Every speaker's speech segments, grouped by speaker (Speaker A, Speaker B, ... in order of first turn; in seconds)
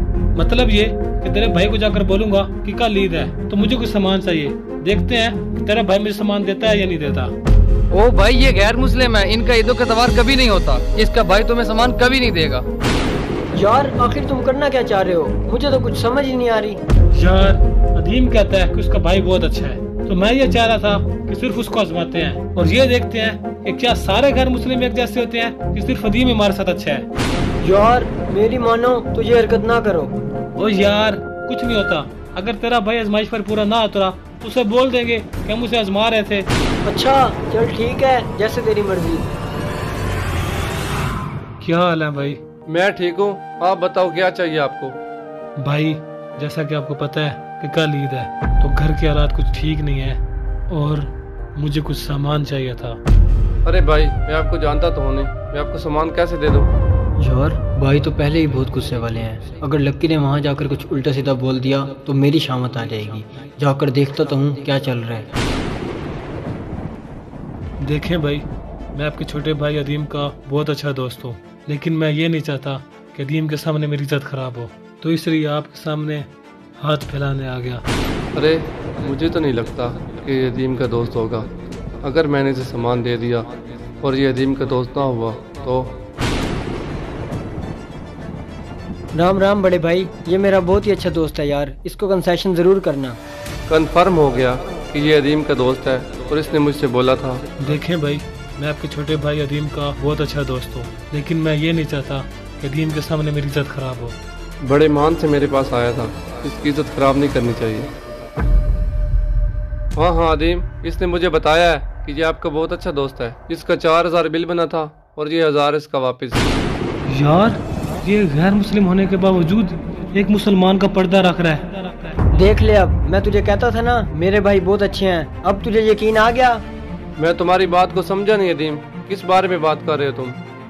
Speaker A: 0.4-7.3, 17.1-27.1, 30.6-36.5, 41.6-42.4, 45.6-53.0, 67.8-77.8, 97.6-104.2, 117.1-121.8
Speaker B: 7.9-12.7
Speaker C: 13.6-16.8, 27.6-30.1, 36.9-39.3, 57.2-65.3, 89.2-93.2, 122.3-126.6
Speaker D: 42.7-45.0, 53.6-56.7, 78.3-81.5, 82.0-86.0, 93.7-97.4, 104.6-107.9, 110.0-116.5, 127.2-130.4